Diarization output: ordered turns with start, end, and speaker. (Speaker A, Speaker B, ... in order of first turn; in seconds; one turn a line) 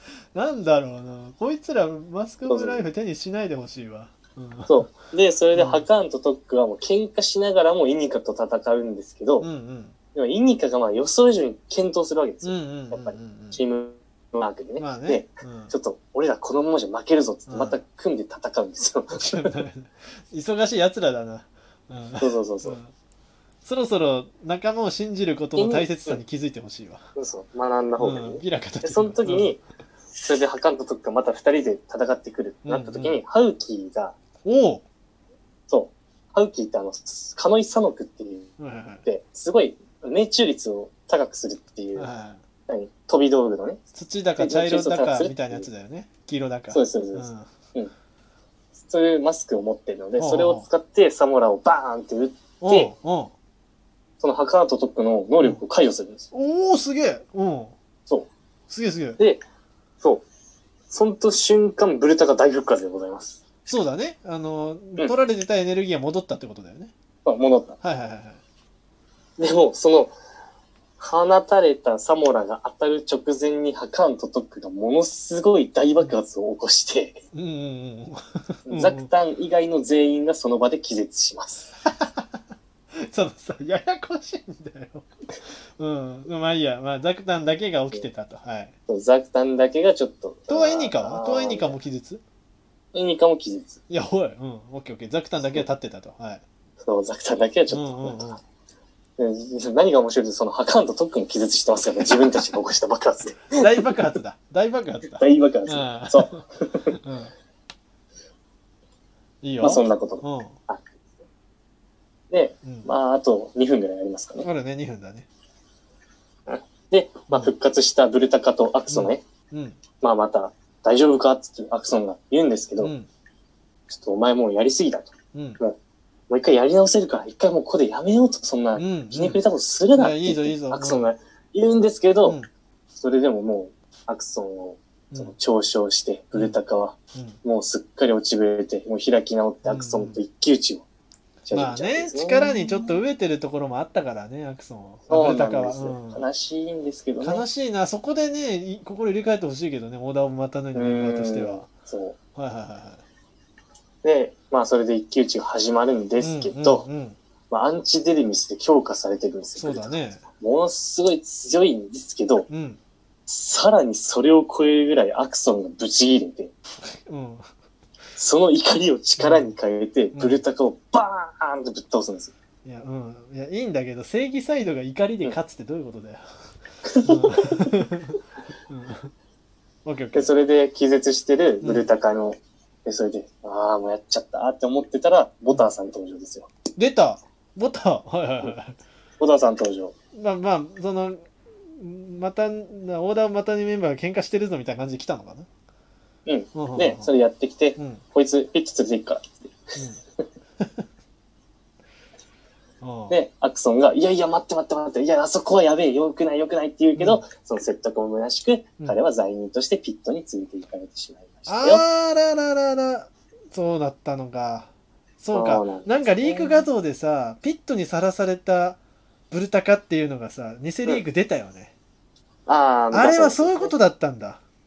Speaker A: 0.3-4.9
Speaker B: 2.5-2.9
Speaker B: 4.7-9.5
Speaker A: 5.5-5.8
Speaker A: 9.4-9.9
Speaker B: 10.1-19.5
Speaker A: 12.4-13.6
Speaker A: 14.8-15.7
Speaker A: 17.5-17.8
Speaker A: 19.1-22.9
Speaker B: 22.2-22.8
Speaker A: 23.6-27.0
Speaker B: 25.6-26.2
Speaker B: 27.2-29.6
Speaker A: 28.0-29.6
Speaker B: 30.2-34.2
Speaker A: 32.7-33.2
Speaker A: 34.4-34.8
Speaker B: 35.7-38.5
Speaker A: 38.6-39.1
Speaker B: 39.0-42.1
Speaker A: 42.0-42.4
Speaker B: 42.7-43.8
Speaker A: 44.0-47.5
Speaker B: 44.4-45.7
Speaker B: 46.7-47.9
Speaker B: 48.8-52.9
Speaker A: 50.2-50.7
Speaker A: 52.6-53.3
Speaker B: 54.2-56.3
Speaker A: 56.3-57.8
Speaker A: 58.7-59.2
Speaker B: 60.9-63.4
Speaker A: 63.6-66.9
Speaker B: 67.2-67.8
Speaker A: 67.8-68.4
Speaker B: 69.4-70.1
Speaker B: 71.0-77.2
Speaker A: 77.3-79.1
Speaker B: 78.7-81.7
Speaker A: 82.0-82.2
Speaker A: 83.0-85.1
Speaker A: 85.8-88.7
Speaker B: 88.9-91.8
Speaker A: 90.5-92.2
Speaker B: 92.9-93.8
Speaker A: 93.9-96.4
Speaker B: 96.8-98.4
Speaker A: 97.7-98.4
Speaker B: 99.2-103.9
Speaker A: 102.1-102.5
Speaker A: 103.5-107.3
Speaker B: 105.2-107.0
Speaker A: 109.4-110.6
Speaker B: 109.6-111.0
Speaker B: 112.3-114.5
Speaker A: 114.4-115.3
Speaker B: 116.5-119.2
Speaker A: 118.9-119.8
Speaker B: 120.0-122.9
Speaker A: 122.8-123.1
Speaker B: 123.9-125.8
Speaker A: 125.3-125.6
Speaker B: 126.3-132.4
Speaker A: 128.8-129.4
Speaker A: 129.9-131.1
Speaker B: 132.9-140.8
Speaker A: 139.7-140.2
Speaker B: 141.4-143.0
Speaker A: 141.5-146.2
Speaker B: 145.1-147.4
Speaker A: 147.2-151.7
Speaker B: 150.8-152.2
Speaker A: 152.4-153.0
Speaker B: 154.0-156.8
Speaker A: 156.2-157.2
Speaker B: 157.5-162.5
Speaker A: 159.6-160.2
Speaker A: 162.5-162.8
Speaker B: 163.3-166.5
Speaker A: 167.1-167.5
Speaker B: 168.2-172.3
Speaker A: 169.2-169.5
Speaker A: 170.2-170.4
Speaker A: 172.7-176.2
Speaker B: 176.8-177.7
Speaker A: 177.1-178.2
Speaker A: 178.7-179.1
Speaker A: 179.8-180.3
Speaker B: 180.1-186.5
Speaker A: 181.6-181.9
Speaker A: 186.8-188.8
Speaker B: 189.2-189.9
Speaker A: 190.2-195.5
Speaker B: 196.3-199.5
Speaker A: 196.5-197.1
Speaker A: 197.8-198.0
Speaker A: 202.8-203.2
Speaker B: 203.1-211.8
Speaker A: 207.0-207.2
Speaker A: 211.5-218.8
Speaker B: 215.3-216.7
Speaker A: 219.3-221.7
Speaker B: 222.5-223.7
Speaker A: 222.9-224.4